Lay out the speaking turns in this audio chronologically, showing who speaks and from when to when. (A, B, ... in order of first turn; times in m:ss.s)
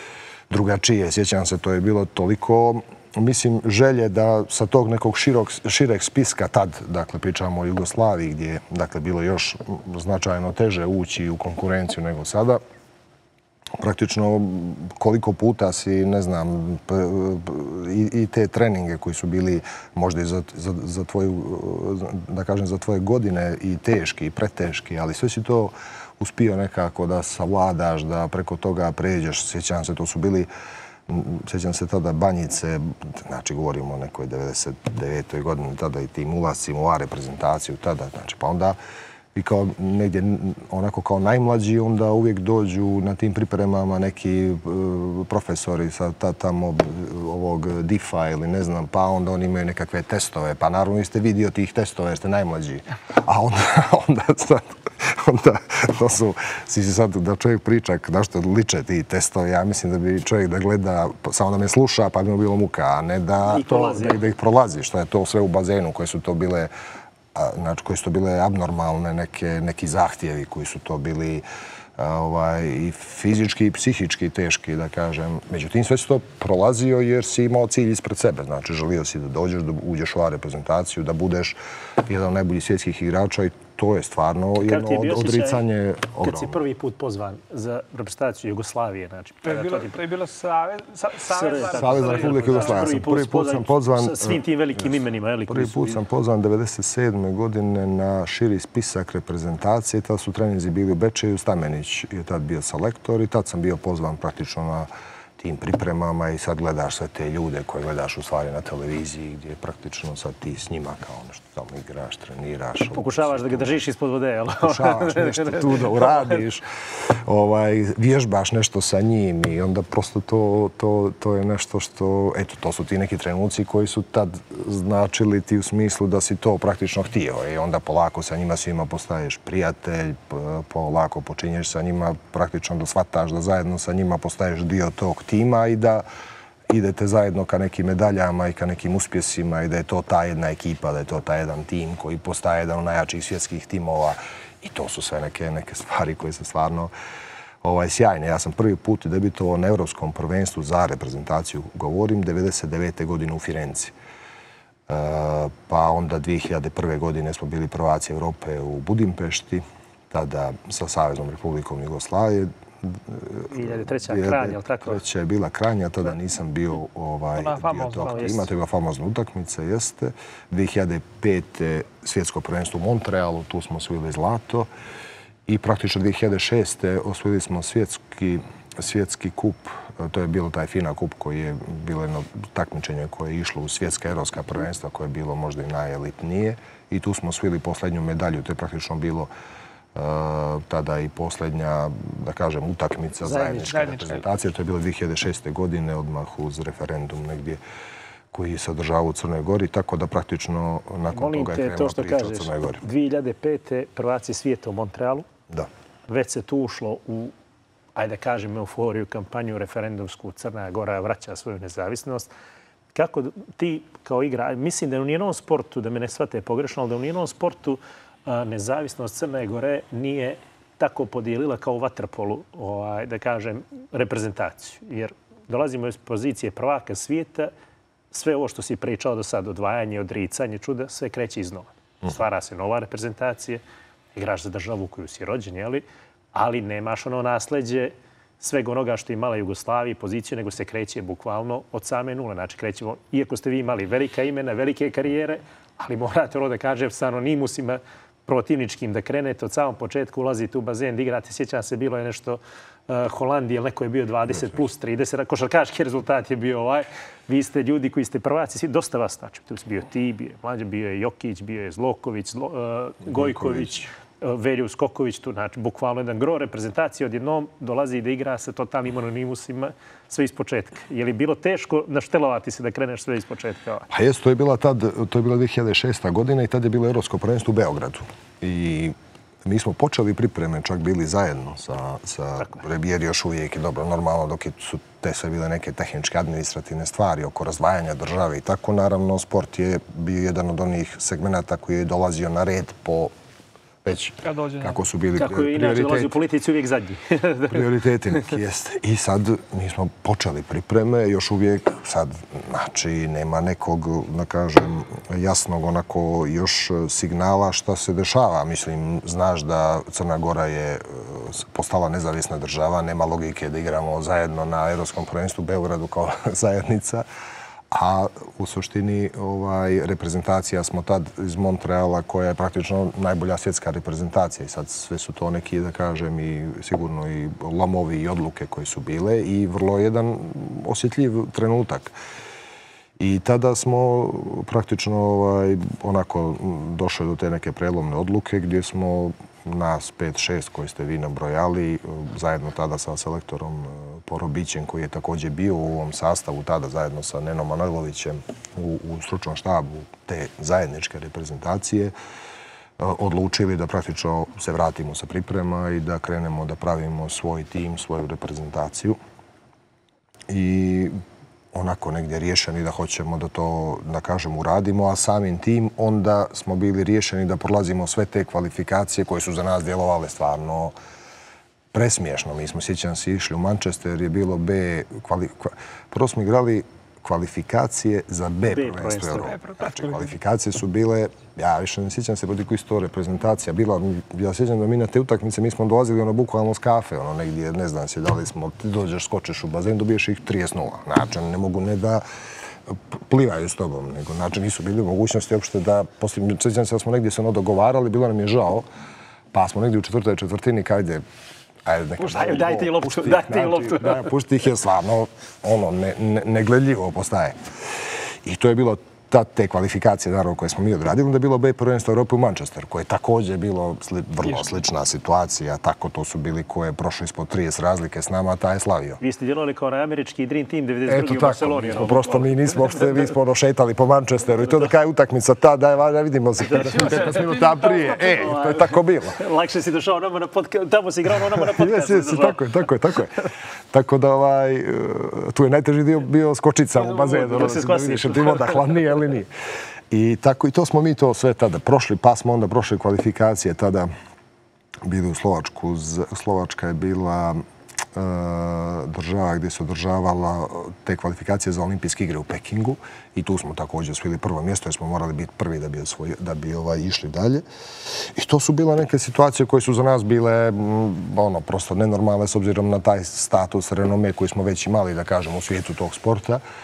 0:00.5-0:12.6 A
0:13.8-0:30.5 A
0:31.1-0:38.8 A
0:39.3-1:06.7 A
1:03.4-1:04.2 B
1:07.3-1:11.4 A
1:12.0-1:26.6 A
1:24.6-1:25.6 B
1:26.2-1:30.0 B
1:29.4-1:32.9 C
1:31.3-1:36.0 B
1:31.7-1:34.9 A
1:35.5-1:53.8 A
1:52.9-1:56.4 B
1:54.6-2:16.0 A
2:16.7-2:26.9 A
2:27.6-2:33.9 A
2:34.9-2:54.7 A
2:43.5-2:45.0 B
2:47.4-2:48.4 C
2:48.0-2:48.5 B
2:55.5-3:09.3 A
3:09.9-3:17.6 A
3:13.2-3:14.0 B
3:13.7-3:14.1 C
3:18.3-3:22.8 A
3:21.1-3:25.3 B
3:26.1-3:27.3 B
3:28.0-3:32.3 B
3:32.9-3:47.5 B
3:48.1-3:53.6 B
3:54.1-4:33.9 B
4:23.0-4:23.9 A
4:33.9-4:53.1 A
4:53.8-4:56.1 A
4:54.2-4:54.8 C
4:55.2-4:58.3 B
4:57.5-5:17.0 A
5:17.7-5:31.9 A
5:33.0-5:51.9 A
5:52.8-5:59.0 A
6:00.3-6:00.9 A
6:01.5-6:10.7 A
6:11.7-6:32.0 A
6:18.4-6:19.4 B
6:32.6-6:38.6 A
6:39.3-6:41.0 A
6:41.6-6:59.0 A
6:42.0-6:44.1 B
6:59.0-7:02.6 B
7:00.9-7:09.2 A
7:06.5-7:12.5 B
7:11.3-7:19.3 A
7:16.8-7:18.7 B
7:19.9-7:23.9 A
7:24.8-7:46.4 A